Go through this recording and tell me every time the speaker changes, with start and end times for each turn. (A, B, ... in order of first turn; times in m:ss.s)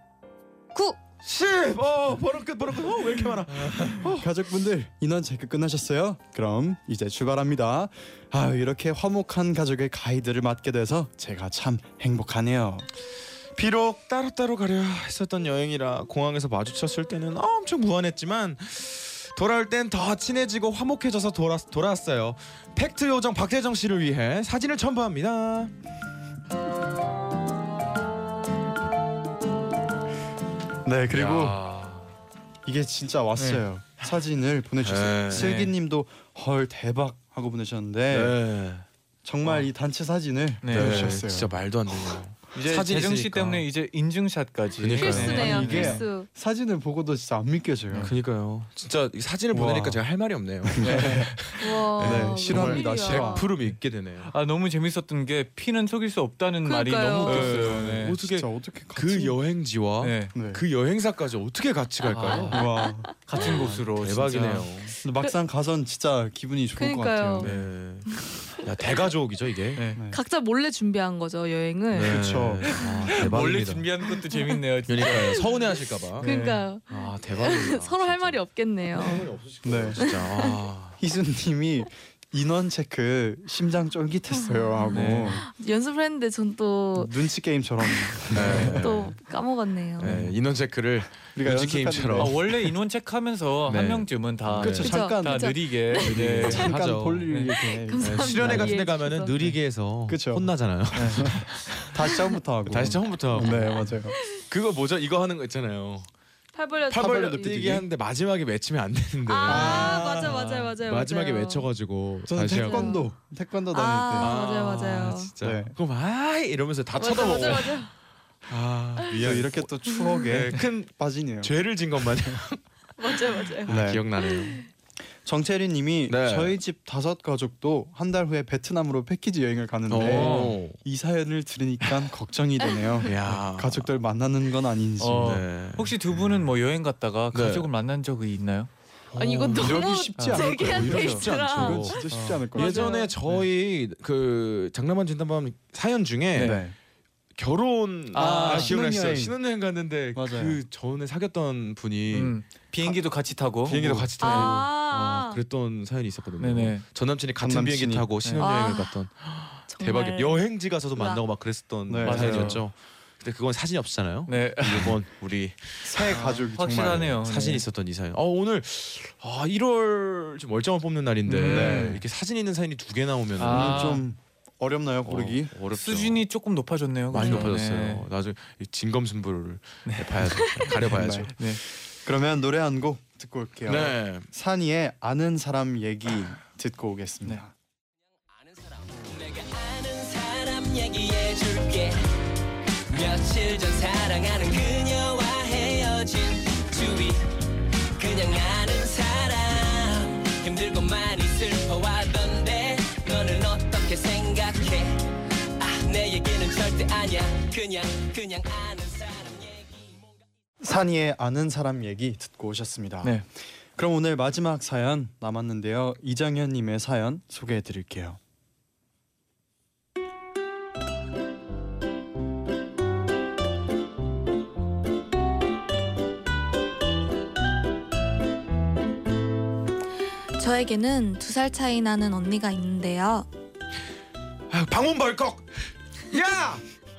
0:01.2-0:04.3 A
0:04.0-0:12.9 B
0:13.5-0:25.7 A
0:30.8-0:31.6 B
0:31.1-0:32.1 A
0:32.6-0:38.4 B
0:34.8-0:35.5 A
0:35.3-0:35.7 C
0:38.1-0:38.8 A
0:39.2-0:42.2 B
0:40.6-0:41.2 C
0:40.7-0:43.6 A
0:42.5-0:46.0 C
0:44.8-0:45.9 A
0:45.0-0:46.3 D
0:45.2-0:48.1 B
0:48.0-0:54.3 A
0:49.5-0:50.0 B
0:50.6-0:53.5 B
0:50.8-0:51.3 C
0:51.6-0:53.5 D
0:53.6-0:58.2 C
0:56.6-0:57.5 D
0:57.2-1:02.6 A
0:57.4-0:59.4 B
1:00.0-1:00.3 C
1:00.3-1:00.6 B
1:02.1-1:04.7 C
1:02.3-1:03.4 D
1:02.5-1:03.1 B
1:03.4-1:04.9 A
1:05.0-1:07.5 B
1:06.8-1:07.5 D
1:07.4-1:09.8 A
1:08.1-1:09.0 D
1:09.7-1:10.0 C
1:09.9-1:10.2 B
1:10.1-1:12.4 D
1:11.9-1:13.8 A
1:12.0-1:12.7 B
1:12.6-1:15.5 C
1:14.9-1:16.3 A
1:16.2-1:19.3 D
1:16.2-1:16.6 C
1:16.9-1:18.4 A
1:18.9-1:21.0 A
1:19.6-1:20.1 B
1:20.0-1:20.6 D
1:21.0-1:25.4 B
1:24.3-1:27.2 D
1:24.9-1:25.4 C
1:26.9-1:28.9 B
1:27.8-1:30.2 D
1:28.3-1:29.2 A
1:28.3-1:28.8 C
1:30.0-1:32.4 A
1:30.0-1:30.3 C
1:31.3-1:32.5 B
1:32.1-1:36.8 C
1:33.7-1:34.9 A
1:34.6-1:38.8 B
1:34.8-1:36.5 D
1:36.0-1:37.3 A
1:37.3-1:37.5 C
1:37.6-1:39.5 D
1:38.0-1:41.9 A
1:40.1-1:40.5 B
1:40.9-1:41.8 C
1:41.1-1:44.2 B
1:42.7-1:46.1 A
1:46.5-1:47.8 D
1:46.9-1:53.0 A
1:47.0-1:47.8 B
1:49.2-1:51.7 D
1:49.4-1:50.4 B
1:52.3-1:54.4 B
1:52.5-1:53.1 D
1:53.7-1:55.3 D
1:54.2-1:57.9 A
1:55.4-1:55.8 B
1:56.9-1:57.9 D
1:58.4-2:04.6 A
1:59.2-2:02.4 B
1:59.9-2:00.2 D
2:03.0-2:04.7 D
2:03.6-2:04.1 B
2:05.2-2:15.4 B
2:06.1-2:06.5 A
2:09.9-2:10.8 A
2:10.0-2:10.6 C
2:12.6-2:13.0 D
2:13.0-2:13.9 A
2:15.0-2:18.7 C
2:15.2-2:16.0 A
2:17.3-2:17.7 A
2:19.1-2:26.6 A
2:19.1-2:23.1 D
2:19.5-2:23.0 B
2:20.2-2:21.2 C
2:26.3-2:26.6 C
2:26.4-2:26.7 B
2:27.4-2:32.4 A
2:28.1-2:28.8 C
2:28.2-2:29.4 B
2:30.1-2:30.6 B
2:32.1-2:34.5 C
2:33.6-2:46.2 A
2:33.7-2:34.0 B
2:34.2-2:35.4 D
2:36.4-2:36.8 C
2:37.4-2:38.1 B
2:38.4-2:39.0 D
2:39.7-2:41.2 D
2:41.9-2:42.6 B
2:42.0-2:42.6 C
2:44.3-2:45.0 C
2:45.8-2:47.2 B
2:46.1-2:47.6 C
2:47.2-2:53.8 A
2:51.2-2:52.0 C
2:51.4-2:52.0 B
2:53.4-2:54.0 C
2:53.4-2:55.6 B
2:55.0-2:56.2 A
2:55.7-2:58.0 C
2:57.1-3:01.3 A
2:59.8-3:01.6 C
3:00.7-3:07.5 B
3:03.6-3:04.3 A
3:08.4-3:12.0 E
3:12.9-3:17.4 E
3:18.0-3:25.0 E
3:25.6-3:30.0 E
3:30.6-3:33.2 B
3:33.8-3:38.2 B
3:50.4-3:53.3 D
3:54.5-3:55.5 A
3:56.1-3:56.6 A